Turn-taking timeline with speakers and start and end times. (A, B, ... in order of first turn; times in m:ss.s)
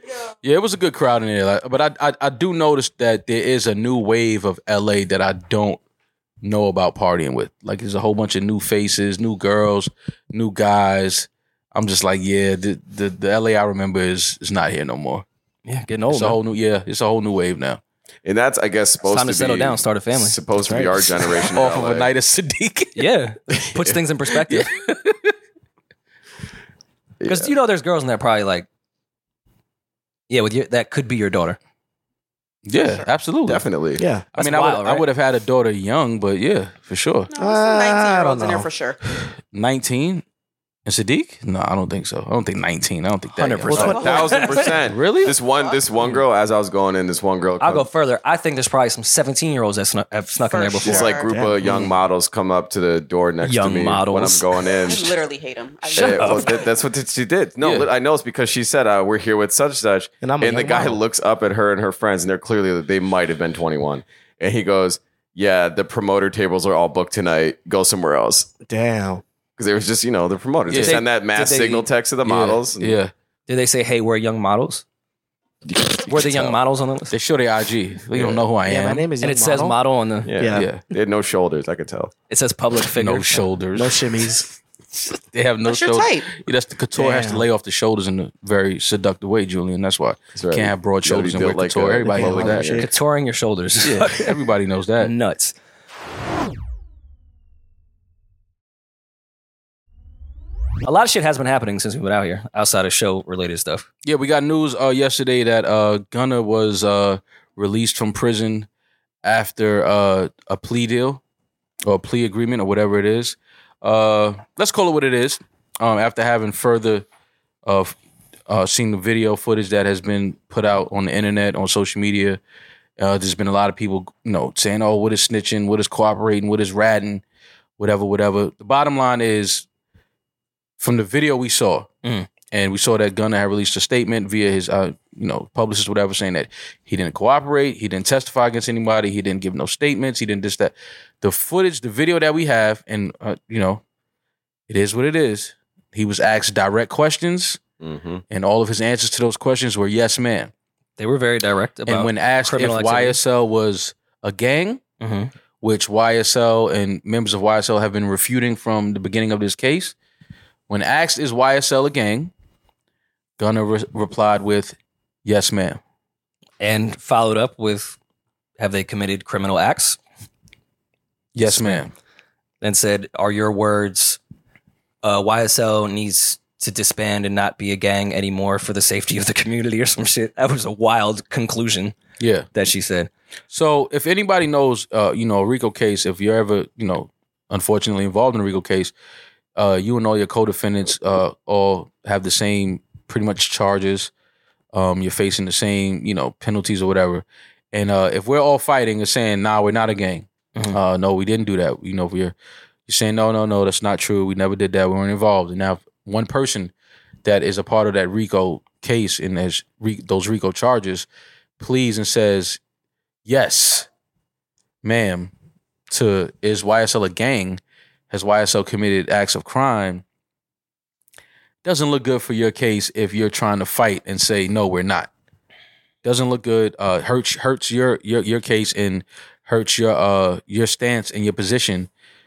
0:00.4-0:05.8 A
0:06.4-0:15.2 A
0:15.6-0:16.4 B
0:16.1-0:17.8 A
0:18.2-0:22.1 C
0:19.0-0:20.4 B
0:20.6-0:21.1 D
0:21.5-0:23.0 A
0:22.9-0:24.7 B
0:24.4-0:25.3 A
0:27.2-0:27.5 C
0:27.2-0:28.7 B
0:30.3-0:31.6 B
0:32.6-0:33.6 A
0:33.5-0:34.0 C
0:34.0-0:34.2 D
0:34.3-0:35.0 B
0:34.3-0:37.3 A
0:37.3-0:39.0 E
0:37.4-0:38.7 D
0:39.1-0:40.2 A
0:40.8-0:44.1 A
0:43.3-0:44.7 B
0:43.7-0:47.9 C
0:43.8-0:44.6 E
0:44.8-0:45.4 A
0:47.6-0:51.1 B
0:50.5-0:51.3 E
0:50.8-0:55.2 C
0:51.2-0:51.6 D
0:53.4-0:54.5 B
0:54.8-0:56.7 E
0:55.9-1:08.5 C
0:55.9-0:56.5 B
0:57.6-0:57.9 A
1:00.2-1:01.0 D
1:08.6-1:09.2 D
1:09.6-1:13.0 C
1:10.7-1:11.0 A
1:10.7-1:11.9 B
1:12.2-1:13.1 A
1:13.5-1:14.8 B
1:15.6-1:16.6 C
1:16.1-1:17.1 B
1:17.1-1:19.1 A
1:18.1-1:18.4 C
1:18.6-1:19.8 D
1:19.2-1:20.3 B
1:20.2-1:22.1 C
1:20.4-1:20.7 D
1:20.5-1:20.8 A
1:22.3-1:23.4 B
1:23.0-1:24.0 A
1:23.7-1:24.5 D
1:25.1-1:32.8 A
1:25.6-1:26.3 E
1:26.9-1:27.4 D
1:30.4-1:32.8 C
1:32.0-1:32.9 D
1:32.8-1:34.4 B
1:33.8-1:35.1 A
1:35.0-1:35.5 B
1:40.8-1:43.8 B
1:44.0-1:48.7 A
1:49.2-1:51.2 A
1:51.8-1:57.0 A
1:57.6-1:58.0 A
1:58.5-2:02.4 A
2:03.0-2:07.2 A
2:07.8-2:09.6 A
2:10.8-2:11.9 A
2:12.5-2:23.8 A
2:24.7-2:27.6 A
2:27.8-2:28.2 C
2:28.3-2:30.5 A
2:31.0-2:33.2 B
2:31.9-2:34.8 A
2:35.0-2:35.3 B
2:35.6-2:39.9 A
2:40.7-2:42.3 A
2:43.4-2:45.8 A
2:46.6-2:48.0 B
2:48.6-2:50.0 B
2:51.3-2:51.9 A
2:51.4-2:51.9 B
2:52.6-2:54.2 B
2:55.0-3:01.9 B
3:02.2-3:02.5 A
3:02.5-3:03.1 B
3:03.5-3:08.9 A
3:09.6-3:14.1 A
3:14.7-3:22.3 A
3:22.9-3:26.7 A
3:27.2-3:31.1 A
3:31.6-3:32.6 A
3:33.2-3:33.9 A
3:34.8-3:35.3 A
3:35.9-3:37.6 A
3:38.1-3:40.0 A
3:41.6-3:45.1 A
3:46.0-3:51.9 A